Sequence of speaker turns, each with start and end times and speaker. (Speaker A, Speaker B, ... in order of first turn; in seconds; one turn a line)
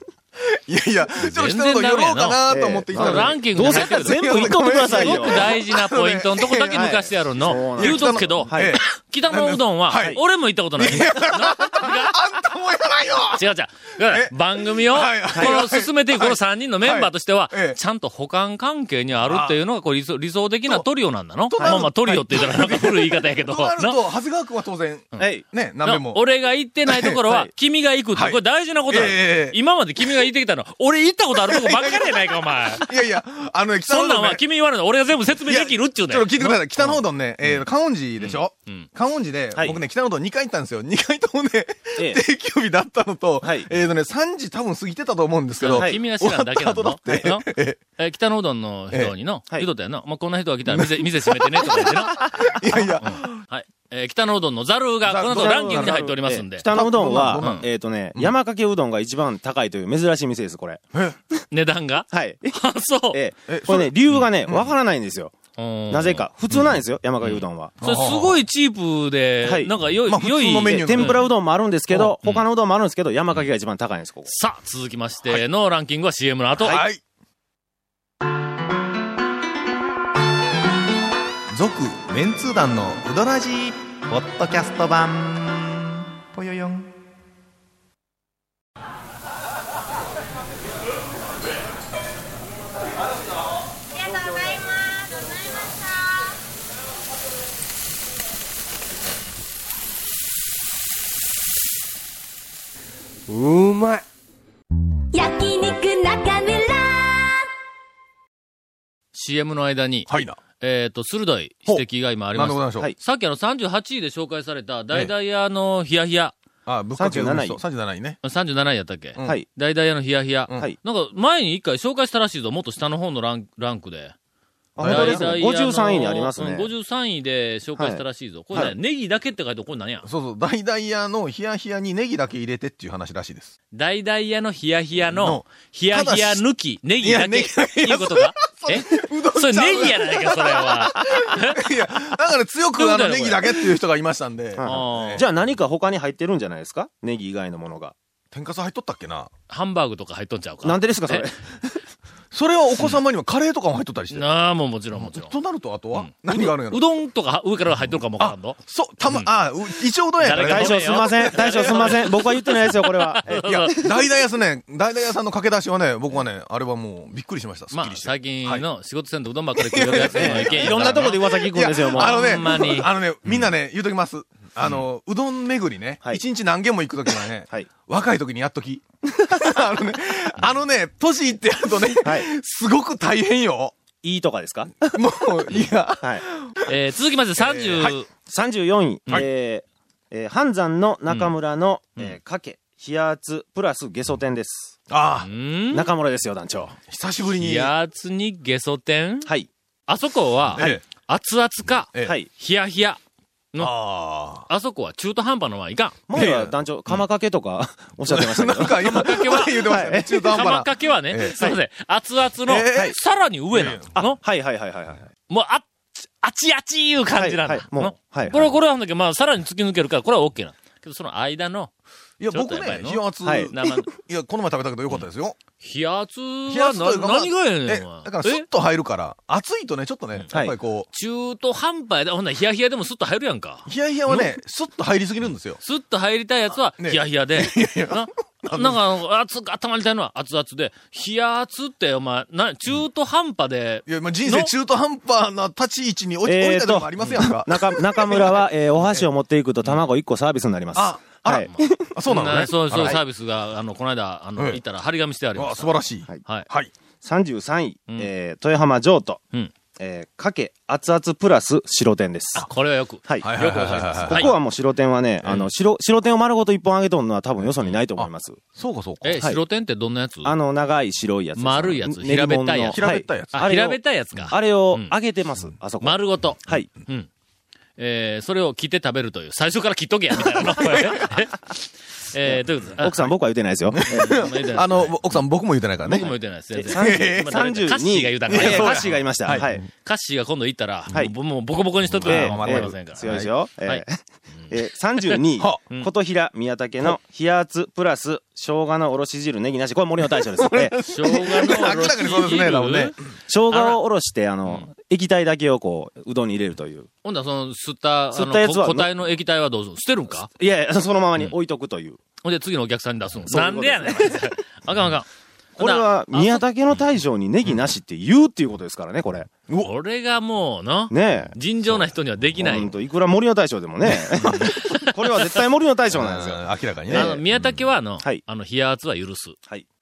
Speaker A: 0.4-6.9
Speaker B: 1.2-12.2
Speaker C: 2.5-5.6
Speaker C: 6.7-8.8
Speaker A: 7.5-10.2
Speaker A: 10.8-17.8
Speaker B: 13.3-24.0
Speaker C: 15.3-15.6
Speaker A: 19.2-19.6
Speaker A: 21.5-26.2
Speaker C: 21.6-21.9
Speaker C: 25.2-25.4
Speaker B: 25.8-32.9
Speaker A: 26.9-27.2
Speaker A: 28.1-29.6
Speaker A: 31.4-34.4
Speaker B: 33.9-37.7
Speaker A: 35.4-47.8
Speaker B: 38.2-38.9
Speaker C: 39.6-39.8
Speaker C: 42.0-42.2
Speaker C: 43.4-43.7
Speaker B: 45.6-47.5
Speaker C: 45.7-46.0
Speaker B: 48.0-52.2
Speaker A: 50.7-51.7
Speaker A: 52.4-53.4
Speaker B: 53.0-57.6
Speaker A: 55.0-56.1
Speaker C: 55.3-60.9
Speaker A: 56.6-57.6
Speaker B: 61.5-63.2
Speaker C: 62.1-65.3
Speaker A: 63.5-64.7
Speaker B: 65.6-71.2
Speaker C: 65.9-67.8
Speaker A: 67.8-68.4
Speaker C: 69.4-69.7
Speaker A: 70.0-71.3
Speaker C: 70.7-74.3
Speaker A: 71.9-72.2
Speaker B: 74.3-76.8
Speaker A: 76.6-77.0
Speaker A: 81.5-86.9
Speaker D: 94.1-95.9
Speaker D: 105.1-107.4
Speaker B: 109.1-116.3
Speaker A: 110.1-110.4
Speaker A: 111.7-112.9
Speaker A: 116.7-118.2
Speaker C: 117.0-117.6
Speaker B: 118.2-124.2
Speaker A: 119.2-119.4
Speaker C: 124.8-126.7
Speaker A: 124.8-125.3
Speaker B: 124.8-130.1
Speaker C: 127.8-128.8
Speaker A: 130.0-133.5
Speaker B: 133.7-141.7
Speaker A: 135.0-136.4
Speaker A: 137.0-145.3
Speaker B: 142.8-143.7
Speaker C: 144.6-147.9
Speaker B: 144.6-145.3
Speaker A: 148.3-149.3
Speaker B: 149.5-151.3
Speaker C: 150.6-151.8
Speaker A: 152.3-154.3
Speaker B: 154.1-155.3
Speaker A: 154.9-156.8
Speaker B: 155.9-159.3
Speaker A: 158.2-162.1
Speaker B: 160.2-163.8
Speaker C: 160.4-164.0
Speaker A: 163.4-168.7
Speaker B: 167.7-172.9
Speaker A: 169.6-183.8
Speaker C: 170.0-172.7
Speaker C: 182.0-182.3
Speaker C: 184.0-185.0
Speaker A: 184.9-186.8
Speaker B: 186.7-188.1
Speaker A: 187.4-188.0
Speaker C: 188.3-194.8
Speaker B: 191.1-191.3
Speaker A: 194.9-195.3
Speaker B: 195.2-195.9
Speaker C: 195.7-196.8
Speaker A: 196.9-197.7
Speaker B: 197.3-199.3
Speaker B: 199.9-203.0
Speaker A: 200.6-200.8
Speaker A: 203.6-204.5
Speaker B: 204.5-206.0
Speaker C: 206.1-210.5
Speaker A: 206.1-206.6
Speaker A: 208.1-211.5
Speaker B: 208.8-209.8
Speaker B: 210.3-214.2
Speaker A: 212.5-213.0
Speaker A: 213.5-214.0
Speaker C: 214.0-215.1
Speaker B: 215.3-221.7
Speaker C: 217.2-218.5
Speaker A: 222.2-225.4
Speaker B: 222.3-223.9
Speaker C: 223.2-223.5
Speaker B: 225.6-228.5
Speaker A: 226.5-230.9
Speaker C: 230.3-230.6
Speaker B: 230.9-234.3
Speaker A: 233.7-235.6
Speaker B: 235.6-244.5
Speaker A: 236.8-238.8
Speaker A: 243.9-249.1
Speaker C: 246.2-252.0
Speaker A: 250.8-253.0
Speaker B: 251.4-256.5
Speaker A: 254.4-254.6
Speaker A: 255.3-256.7
Speaker C: 257.0-259.2
Speaker C: 259.8-262.5
Speaker B: 262.4-264.3
Speaker C: 263.1-263.4
Speaker A: 263.2-264.3
Speaker C: 263.9-268.4
Speaker A: 268.0-269.2
Speaker B: 269.0-270.3
Speaker C: 270.2-276.7
Speaker B: 271.4-274.9
Speaker A: 272.7-273.5
Speaker B: 275.8-277.1
Speaker B: 277.8-283.1
Speaker C: 282.2-284.2
Speaker A: 283.7-286.1
Speaker B: 283.9-285.2
Speaker C: 285.9-289.7
Speaker B: 285.9-293.8
Speaker A: 286.7-287.3
Speaker A: 288.3-289.7
Speaker A: 291.9-293.3
Speaker C: 292.0-300.8
Speaker A: 300.2-303.0
Speaker B: 300.9-303.0
Speaker C: 303.3-306.9
Speaker B: 303.5-303.8
Speaker B: 307.0-310.3
Speaker C: 308.1-309.0
Speaker C: 310.2-312.0
Speaker B: 312.2-315.1
Speaker C: 313.3-314.4
Speaker C: 315.6-319.3
Speaker B: 315.6-316.5
Speaker A: 319.5-319.7
Speaker B: 319.6-322.8
Speaker C: 320.9-321.4
Speaker C: 322.4-327.2
Speaker B: 324.2-325.4
Speaker A: 324.2-324.5
Speaker A: 325.9-327.6
Speaker B: 326.9-329.4